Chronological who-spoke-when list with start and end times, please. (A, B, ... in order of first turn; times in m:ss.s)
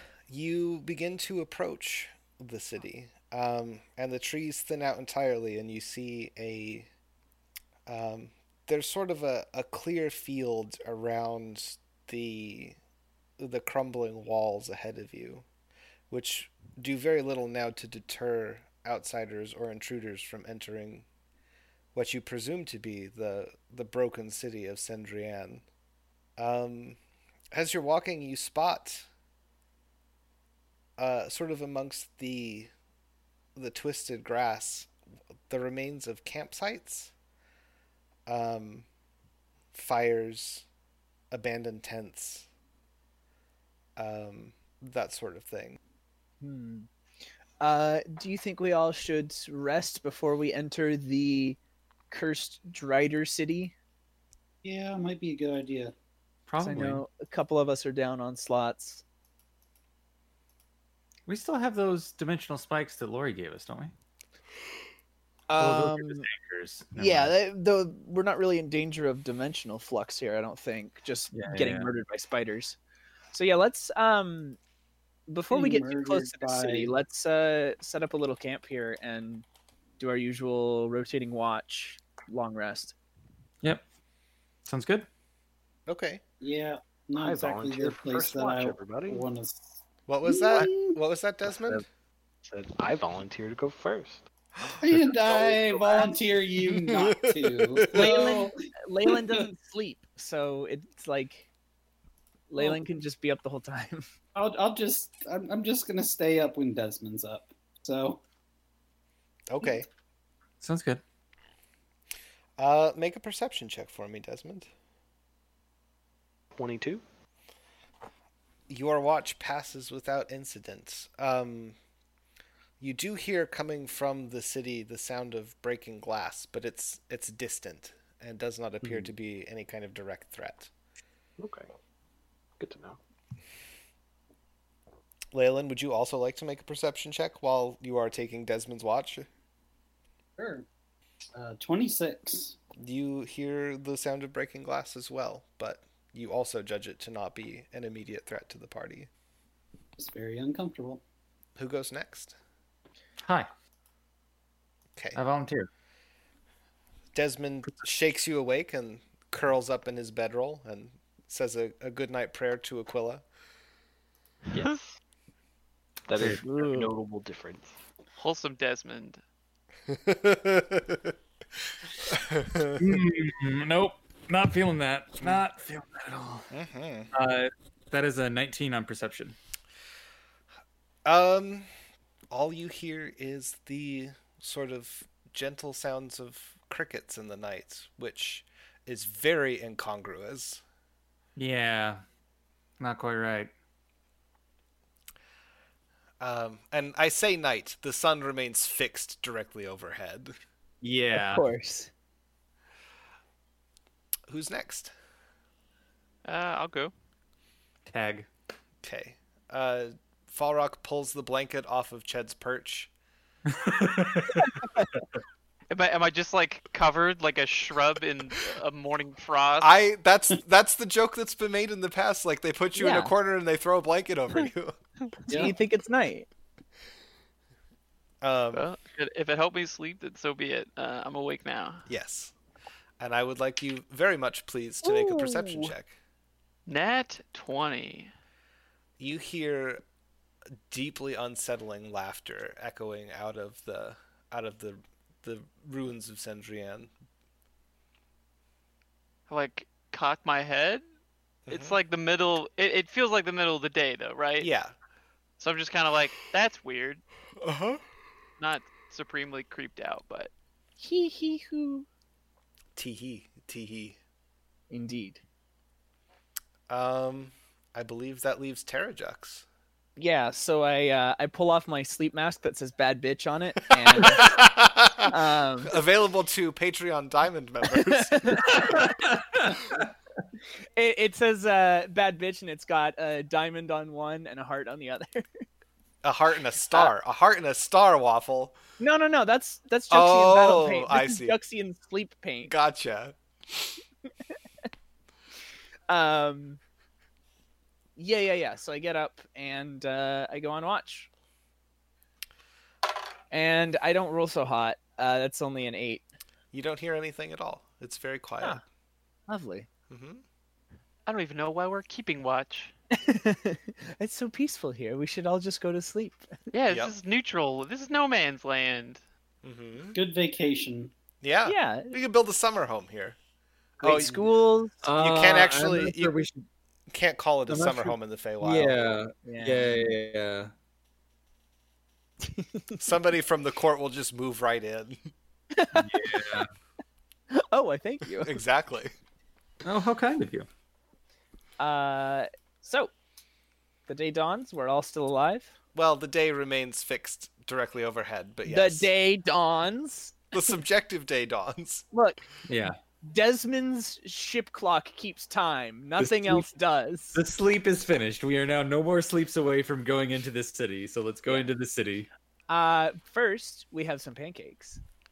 0:00.3-0:06.9 A
0:07.9-0:12.8 A
0:13.4-0:15.4 A
0:16.1-0:21.1 A
0:21.9-0:25.6 A
0:26.4-0:27.0 A
0:27.5-0:29.1 A
0:31.0-0:32.7 A
0:33.6-0:34.9 A
0:35.5-0:37.1 A
0:38.3-0:38.9 A
0:39.7-0:40.7 A
0:41.3-0:42.5 A
0:44.0-0:45.8 A
0:46.4-0:46.9 B
0:47.6-0:51.6 B
0:52.1-0:53.7 B
0:54.6-0:55.9 C
0:56.5-0:57.0 D
0:56.6-0:59.0 B
1:01.3-1:03.9 D
1:05.5-1:06.3 B
1:05.6-1:07.3 D
1:07.0-1:12.8 B
1:11.3-1:11.9 D
1:13.3-1:14.6 B
1:15.3-1:19.4 B
1:15.5-1:16.9 C
1:20.0-1:23.0 B
1:24.7-1:25.1 D
1:25.9-1:26.2 A
1:26.4-1:30.9 C
1:27.2-1:29.3 E
1:30.1-1:31.8 A
1:31.5-1:31.8 E
1:32.4-1:34.3 E
1:34.8-1:38.5 C
1:35.3-1:36.1 E
1:36.6-1:38.1 A
1:37.9-1:41.5 B
1:39.1-1:39.4 C
1:42.5-1:44.1 B
1:44.4-1:48.2 C
1:49.5-1:49.9 A
1:50.6-1:51.0 D
1:52.6-1:54.7 A
1:56.6-1:57.0 E
1:58.7-2:01.8 A
2:02.8-2:10.7 A
2:08.8-2:09.1 E
2:11.4-2:11.7 E
2:12.6-2:13.0 E
2:15.3-2:19.3 A
2:20.4-2:20.7 C
2:21.4-2:22.6 C
2:22.8-2:29.1 A
2:30.0-2:31.0 C
2:31.6-2:32.4 A
2:33.2-2:33.5 D
2:35.2-2:35.7 D
2:37.1-2:43.2 A
2:44.5-2:44.8 F
2:44.5-2:45.0 E
2:46.1-2:47.8 E
2:46.2-2:46.9 D
2:48.2-2:49.2 F
2:49.9-2:51.1 A
2:52.1-2:52.8 A
2:52.8-2:56.5 D
2:56.5-2:57.1 A
2:57.1-2:59.4 D
3:01.0-3:01.7 A
3:02.3-3:10.6 A
3:11.4-3:12.0 D
3:12.8-3:13.5 D
3:16.2-3:20.4 A
3:20.8-3:21.5 D
3:21.1-3:21.9 B
3:24.3-3:24.9 A
3:26.2-3:26.9 F
3:27.9-3:28.3 D
3:28.8-3:32.9 A
3:33.5-3:35.1 D
3:34.4-3:34.9 B
3:35.7-3:39.7 F
3:39.6-3:44.8 A
3:42.8-3:43.1 B
3:45.3-3:45.6 C
3:45.3-3:46.3 B
3:48.2-3:48.7 A
3:48.5-3:51.8 F
3:51.9-3:52.3 A
3:53.0-3:56.0 A
3:54.8-3:55.7 B
3:56.7-3:58.1 F
3:59.0-3:59.8 A
4:00.7-4:06.9 A
4:09.3-4:10.8 F
4:11.5-4:11.8 A
4:11.5-4:14.5 F
4:14.4-4:14.7 A
4:15.4-4:17.0 F
4:17.4-4:17.8 A
4:18.4-4:20.3 F
4:20.8-4:21.9 B
4:22.8-4:24.0 A
4:24.7-4:25.2 B
4:26.7-4:29.4 A
4:30.0-4:34.4 B
4:33.9-4:35.1 A
4:35.1-4:35.8 B
4:35.6-4:38.5 A
4:37.7-4:38.7 B
4:38.4-4:39.8 D
4:40.8-4:45.4 B
4:46.0-4:48.6 A
4:48.8-4:52.6 B
4:49.9-4:51.4 A
4:52.5-4:53.7 A
4:55.9-4:56.6 B
4:58.0-5:01.1 B
5:03.3-5:06.0 B
5:06.5-5:08.6 A
5:09.3-5:09.7 B
5:09.9-5:10.2 A
5:11.1-5:12.7 F
5:12.9-5:16.3 B
5:16.5-5:19.0 F
5:16.7-5:16.9 A
5:19.4-5:20.0 A
5:19.9-5:20.9 C
5:21.2-5:23.2 A
5:21.4-5:22.0 B
5:23.8-5:24.8 B
5:23.8-5:24.2 A
5:24.8-5:26.5 D
5:25.0-5:26.2 A
5:26.9-5:28.9 A
5:27.5-5:30.5 D
5:29.2-5:29.9 B
5:32.2-5:32.9 B
5:32.8-5:35.0 A
5:35.5-5:36.2 B
5:35.7-5:36.5 D
5:37.3-5:38.4 B
5:38.2-5:38.9 A
5:39.6-5:40.5 D
5:41.6-5:42.9 B
5:43.9-5:45.6 B
5:45.8-5:48.9 A
5:48.5-5:50.3 B
5:50.3-5:51.9 A
5:51.9-5:52.2 B
5:52.5-5:52.8 D
5:53.0-5:57.2 B
5:56.0-5:56.5 D
5:57.1-6:02.1 D
6:02.5-6:04.8 B